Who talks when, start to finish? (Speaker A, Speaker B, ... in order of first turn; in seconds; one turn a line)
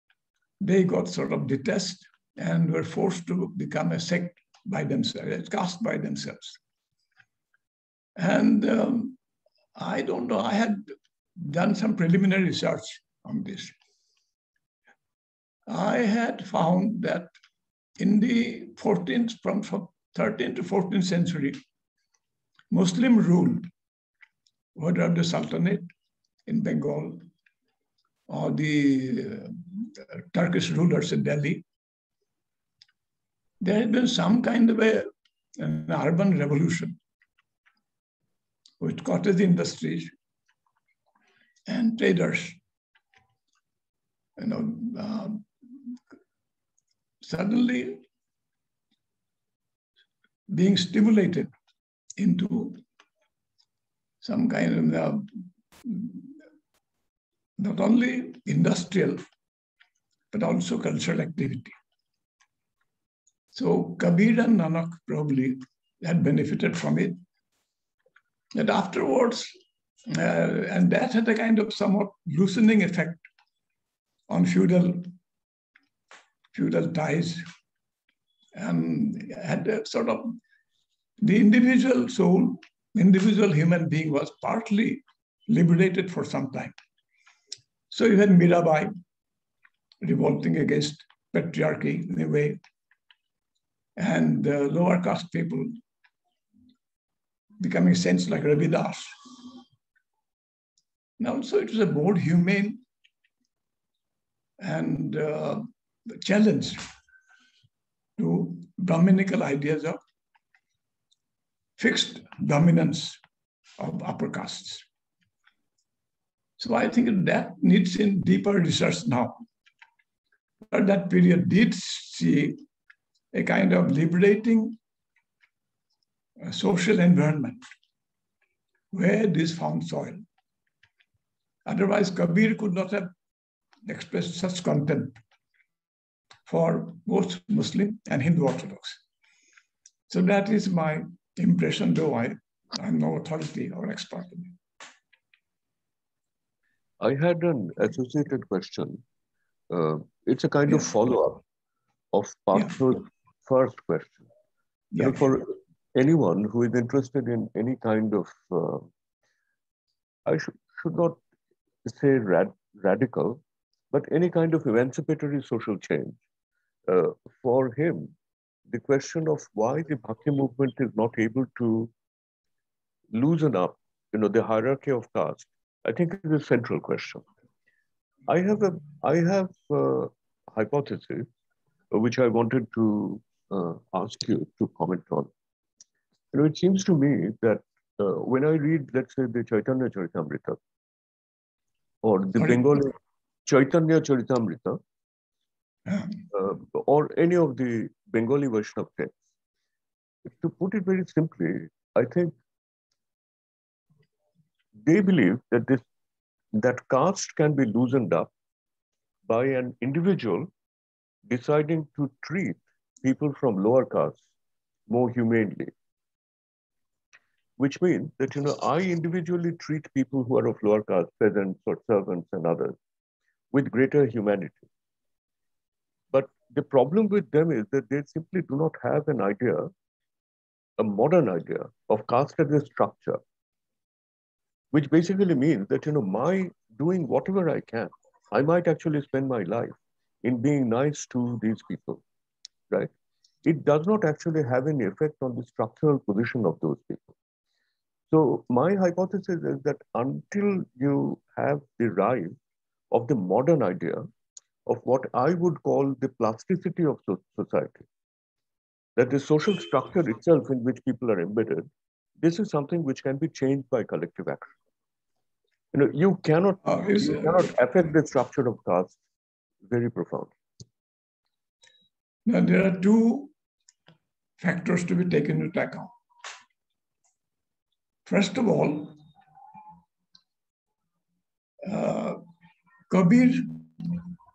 Speaker A: 0.6-6.6
Speaker A: 8.2-9.2
Speaker A: 9.8-13.8
Speaker A: 15.7-17.3
Speaker A: 18.0-21.6
Speaker A: 22.7-23.7
Speaker A: 24.8-25.9
Speaker A: 26.5-27.3
Speaker A: 28.3-31.6
Speaker A: 33.6-37.0
Speaker A: 38.8-40.1
Speaker A: 41.7-42.6
Speaker A: 44.4-45.5
Speaker A: 47.2-48.0
Speaker A: 50.5-51.5
Speaker A: 52.2-52.8
Speaker A: 54.2-56.3
Speaker A: 57.6-59.2
Speaker A: 60.3-61.8
Speaker A: 63.5-67.2
Speaker A: 68.5-69.5
Speaker A: 70.1-73.3
Speaker A: 74.3-75.1
Speaker A: 76.5-77.4
Speaker A: 78.5-80.4
Speaker A: 81.2-86.8
Speaker A: 87.9-88.9
Speaker A: 90.0-92.6
Speaker A: 94.0-95.8
Speaker A: 97.6-99.2
Speaker A: 101.2-102.8
Speaker A: 104.6-106.9
Speaker A: 108.2-110.0
Speaker A: 111.8-113.2
Speaker A: 113.8-114.8
Speaker A: 116.6-119.4
Speaker A: 120.7-122.6
Speaker A: 123.3-124.8
Speaker A: 126.4-127.6
Speaker A: 128.9-130.2
Speaker A: 131.7-133.1
Speaker A: 133.8-135.2
Speaker A: 136.5-139.0
Speaker A: 140.1-144.6
Speaker B: 147.0-149.0
Speaker B: 149.7-151.4
Speaker B: 152.1-154.2
Speaker A: 154.9-155.2
Speaker B: 155.0-158.9
Speaker B: 160.2-161.2
Speaker B: 161.8-163.4
Speaker B: 163.9-166.2
Speaker B: 166.9-168.1
Speaker B: 168.7-171.9
Speaker B: 173.1-177.2
Speaker B: 178.3-181.3
Speaker B: 181.9-185.3
Speaker B: 186.3-190.6
Speaker B: 192.0-192.9
Speaker A: 192.4-192.8
Speaker B: 193.4-194.8
Speaker A: 195.9-196.1
Speaker B: 196.3-199.1
Speaker B: 200.2-202.3
Speaker B: 204.8-205.8
Speaker B: 206.5-208.3
Speaker B: 209.3-210.5
Speaker B: 211.3-214.2
Speaker B: 214.9-215.7
Speaker B: 217.6-222.8
Speaker B: 223.5-224.7
Speaker B: 226.1-229.7
Speaker B: 230.8-233.2
Speaker B: 234.7-242.0
Speaker B: 243.4-247.1
Speaker B: 248.1-252.3
Speaker B: 252.9-254.1
Speaker B: 254.7-257.8
Speaker B: 259.0-261.7
Speaker B: 262.2-264.5
Speaker B: 265.7-269.0
Speaker A: 266.6-267.6
Speaker B: 269.6-270.3
Speaker A: 272.2-273.3
Speaker A: 274.4-275.9
Speaker A: 278.1-279.0
Speaker A: 281.6-282.2
Speaker A: 282.9-284.0